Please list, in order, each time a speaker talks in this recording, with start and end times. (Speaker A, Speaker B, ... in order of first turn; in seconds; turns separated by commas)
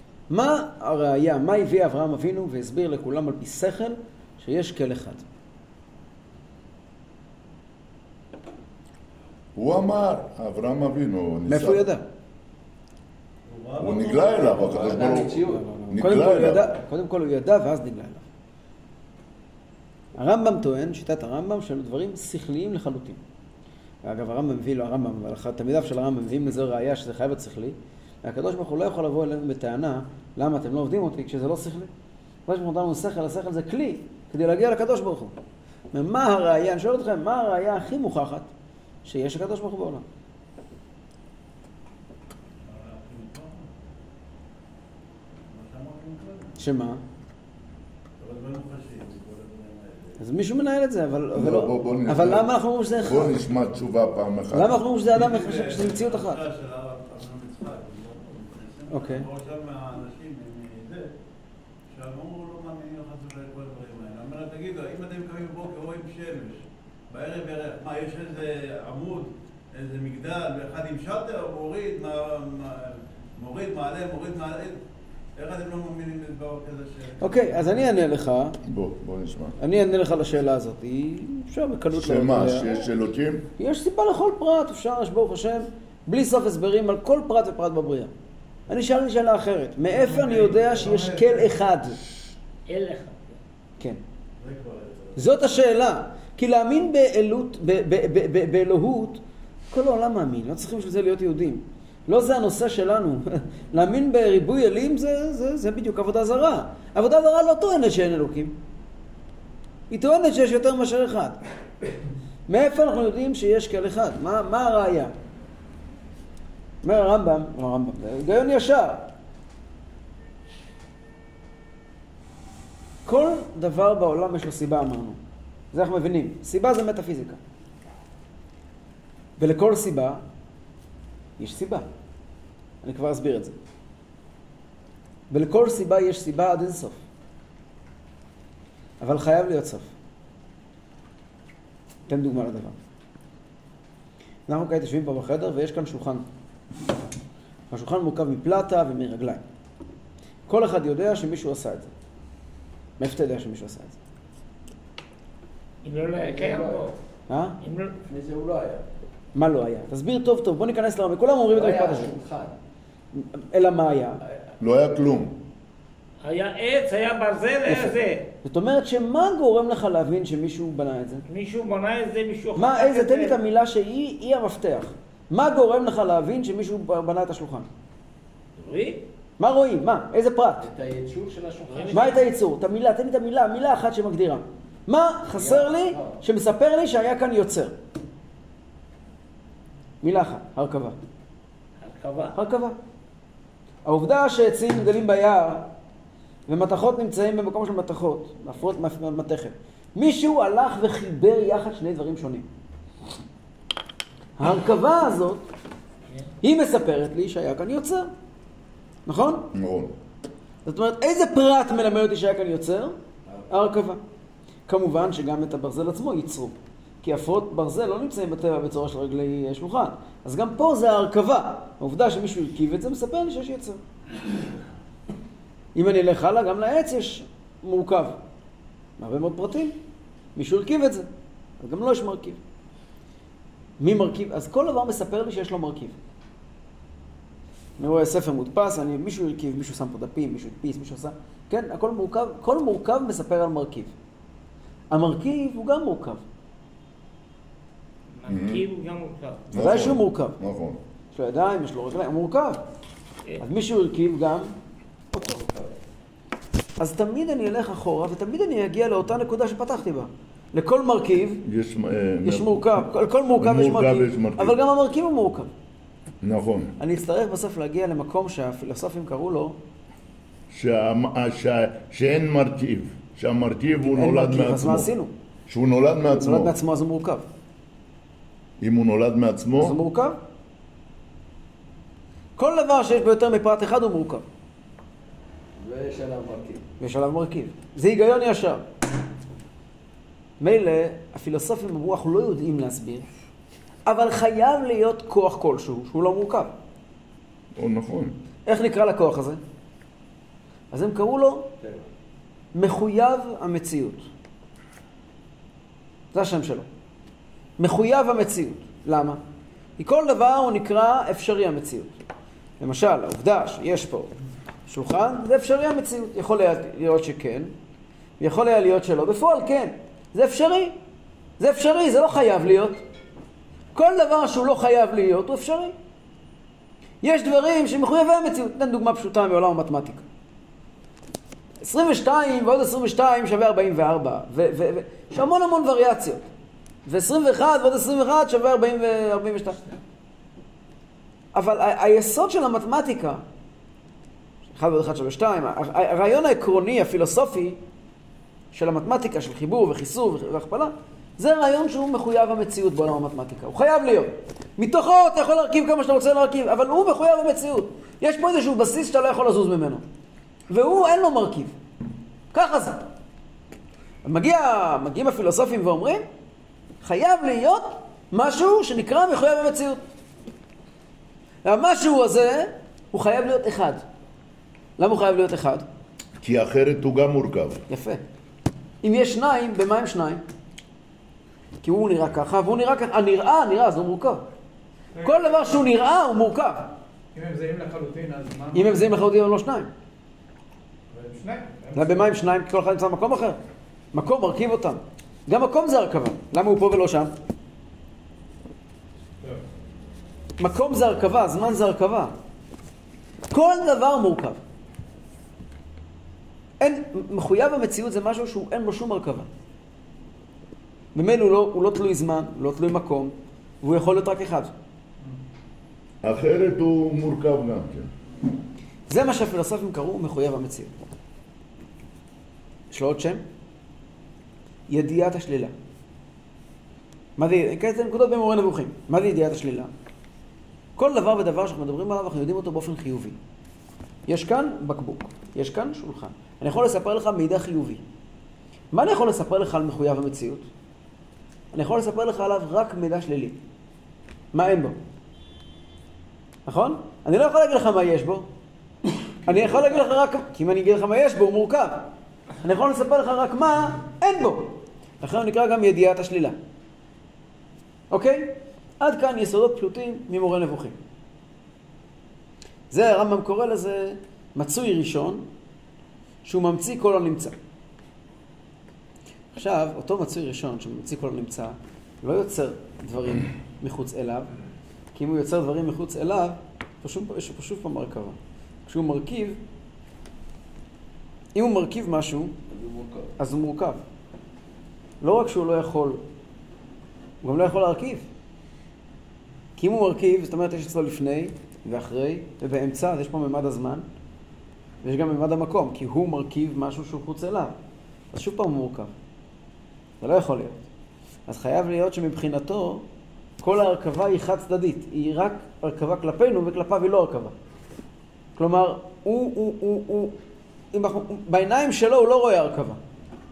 Speaker A: 0.3-5.2, Speaker B: 9.6-11.9, Speaker A: 11.5-12.1, Speaker C: 13.5-15.2, Speaker B: 13.8-16.7, Speaker D: 14.5-15.6, Speaker A: 15.4-18.3, Speaker A: 20.1-23.2, Speaker A: 24.0-31.9, Speaker A: 32.5-35.4, Speaker A: 35.9-38.5, Speaker A: 39.0-40.0, Speaker C: 42.6-43.7, Speaker C: 45.5-46.6, Speaker A: 46.6-47.0, Speaker C: 48.2-50.2, Speaker A: 50.2-53.4, Speaker B: 51.3-54.8, Speaker A: 54.5-56.4, Speaker C: 55.1-61.1, Speaker A: 58.9-59.3, Speaker C: 61.9-74.8, Speaker C: 75.3-77.9, Speaker A: 77.2-78.6, Speaker B: 78.7-79.6, Speaker A: 79.6-82.8, Speaker B: 81.9-83.5, Speaker A: 83.6-88.1, Speaker A: 88.7-92.0, Speaker E: 90.1-91.4, Speaker C: 90.5-91.0, Speaker F: 92.7-93.4, Speaker C: 94.4-95.2, Speaker A: 95.2-108.6, Speaker A: 109.9-111.4, Speaker A: 112.5-115.1, Speaker A: 116.8-119.1, Speaker A: 123.1-125.2, Speaker A: 125.7-127.4, Speaker A: 129.4-130.2, Speaker A: 131.4-131.9, Speaker A: 132.8-133.6, Speaker A: 135.3-137.0, Speaker A: 139.0-139.9, Speaker A: 142.1-142.8, Speaker A: 144.5-146.3, Speaker A: 147.7-149.4, Speaker A: 150.5-151.9, Speaker A: 153.0-154.0, Speaker F: 155.8-157.0, Speaker D: 156.1-156.9, Speaker A: 157.3-157.6, Speaker F: 157.6-157.9, Speaker D: 158.1-158.8, Speaker A: 159.3-162.2, Speaker D: 161.5-162.6, Speaker A: 163.1-164.2, Speaker B: 164.6-165.4, Speaker F: 166.2-168.3, Speaker A: 167.7-167.9, Speaker A: 168.4-171.2, Speaker F: 171.3-173.4, Speaker A: 172.6-177.7, Speaker F: 178.6-179.0, Speaker A: 179.4-180.7, Speaker D: 180.6-182.2, Speaker F: 181.7-182.2, Speaker A: 181.9-187.8, Speaker D: 185.3-186.2, Speaker A: 190.0-191.0, Speaker F: 191.8-192.4, Speaker A: 192.3-192.8, Speaker A: 193.8-195.7, Speaker A: 196.5-202.5, Speaker A: 204.4-205.5, Speaker A: 206.4-208.1, Speaker A: 209.1-209.5, Speaker B: 209.5-210.0, Speaker A: 210.7-213.0, Speaker A: 213.5-214.0, Speaker A: 214.7-223.8, Speaker A: 225.8-228.2, Speaker A: 229.0-229.8, Speaker A: 230.4-231.1, Speaker A: 231.6-232.4, Speaker A: 233.8-236.0, Speaker A: 237.8-243.9, Speaker A: 244.9-246.2, Speaker F: 248.2-249.4, Speaker B: 248.3-248.7, Speaker B: 249.5-250.8, Speaker A: 249.5-250.4, Speaker A: 251.1-252.6, Speaker A: 253.4-254.5, Speaker D: 255.1-255.7, Speaker A: 256.8-261.4, Speaker B: 261.4-264.6, Speaker A: 262.2-265.5, Speaker B: 266.2-266.8, Speaker A: 266.8-269.6, Speaker B: 270.5-274.9, Speaker A: 273.8-275.1, Speaker B: 275.5-276.6, Speaker A: 276.1-277.3, Speaker B: 278.6-279.8, Speaker A: 279.6-280.2, Speaker A: 282.4-284.2, Speaker D: 285.6-286.6, Speaker A: 286.8-288.6, Speaker A: 290.4-293.1, Speaker A: 293.9-296.6, Speaker B: 297.6-298.2, Speaker A: 298.5-299.4, Speaker A: 300.7-301.5, Speaker D: 301.6-301.9, Speaker A: 302.6-304.1, Speaker A: 306.1-306.7, Speaker A: 307.6-309.2, Speaker A: 309.8-312.0, Speaker A: 312.6-314.1, Speaker A: 314.7-317.5, Speaker A: 318.2-320.8, Speaker A: 321.4-322.8, Speaker A: 323.8-325.7, Speaker A: 327.0-330.1, Speaker A: 331.6-336.3, Speaker A: 336.9-339.6, Speaker A: 341.3-343.2, Speaker A: 344.6-347.6, Speaker A: 348.5-359.8, Speaker A: 360.5-361.6, Speaker A: 362.3-362.9, Speaker A: 364.0-366.1, Speaker A: 366.8-369.8, Speaker A: 371.4-373.8, Speaker A: 374.8-375.7, Speaker B: 376.2-377.6, Speaker A: 377.7-378.0, Speaker A: 378.8-380.2, Speaker A: 381.6-384.3, Speaker A: 385.0-386.7, Speaker E: 387.1-388.9, Speaker A: 388.5-389.7, Speaker E: 390.9-392.2, Speaker A: 391.7-393.4, Speaker A: 393.9-397.1, Speaker A: 400.4-402.1, Speaker A: 403.3-404.4, Speaker A: 406.6-409.3, Speaker A: 410.9-414.5, Speaker B: 416.0-417.9, Speaker A: 418.9-420.7, Speaker A: 422.7-423.2, Speaker A: 424.7-425.5, Speaker A: 427.2-429.7, Speaker A: 430.8-433.2, Speaker A: 434.1-437.8, Speaker A: 438.7-440.5, Speaker A: 441.5-443.4, Speaker A: 444.3-444.8, Speaker A: 446.5-448.3, Speaker A: 449.2-456.4, Speaker A: 457.9-460.8, Speaker A: 462.7-465.3, Speaker A: 466.2-467.4, Speaker A: 469.3-474.3, Speaker A: 474.9-479.4, Speaker A: 481.4-482.4, Speaker D: 482.5-483.1, Speaker A: 483.2-483.8, Speaker A: 485.0-486.0, Speaker A: 487.2-488.1, Speaker A: 489.6-493.9, Speaker A: 494.8-497.6, Speaker A: 498.1-498.9, Speaker A: 500.0-500.7, Speaker A: 501.3-502.9, Speaker A: 503.4-507.3, Speaker A: 508.4-510.1, Speaker A: 510.7-512.8